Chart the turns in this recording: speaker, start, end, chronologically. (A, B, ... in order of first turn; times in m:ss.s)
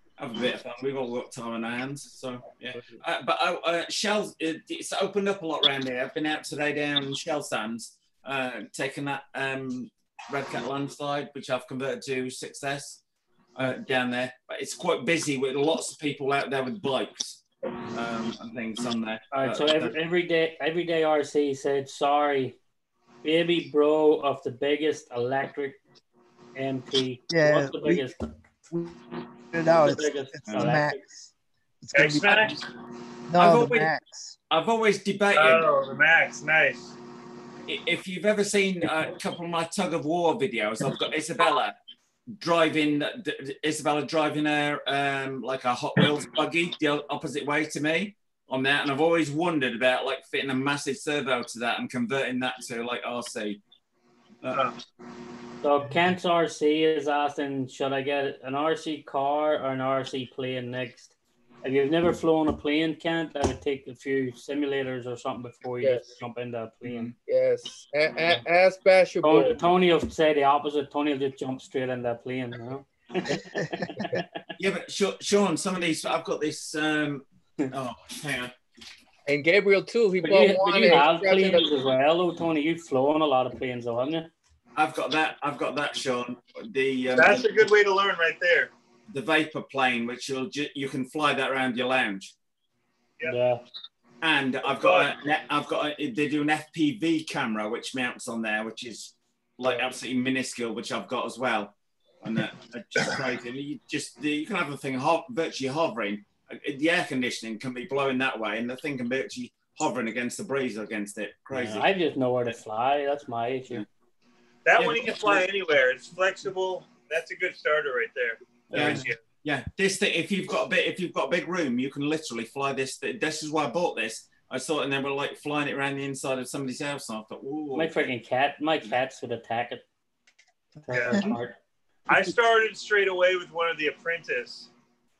0:00.2-0:13.0 A
0:13.6-0:17.4 A
0:17.9-0:20.0 A
0:19.3-0:22.6 B
0:23.2-0:25.8 B
0:26.6-0:28.3 B
0:27.3-0:28.1 C
0:29.5-0:31.3 C
0:29.7-0:31.0 B
0:30.5-0:30.8 A
0:31.8-0:32.5 C
0:31.9-0:32.6 D
0:33.3-0:34.4 C
0:33.4-0:33.9 A
0:34.5-0:35.7 A
0:35.4-0:36.9 D
0:37.7-0:41.8 A
0:42.4-0:53.6 A
0:54.4-0:54.7 A
0:55.6-1:07.1 B
1:06.8-1:07.2 A
1:07.3-1:09.6 E
1:09.2-1:14.4 B
1:13.6-1:13.9 C
1:14.6-1:18.5 A
1:19.3-1:21.8 E
1:20.2-1:24.3 B
1:24.8-1:27.6 A
1:27.2-1:28.7 D
1:29.1-1:32.3 A
1:33.2-1:33.6 B
1:34.2-1:51.9 A
1:34.7-1:35.1 D
1:51.5-1:53.8 B
1:54.6-1:59.2 D
1:54.8-1:55.5 A
1:58.7-1:59.1 B
1:58.7-2:08.1 A
2:07.8-2:09.8 B
2:10.9-2:11.6 B
2:10.9-2:11.2 D
2:12.1-2:14.7 D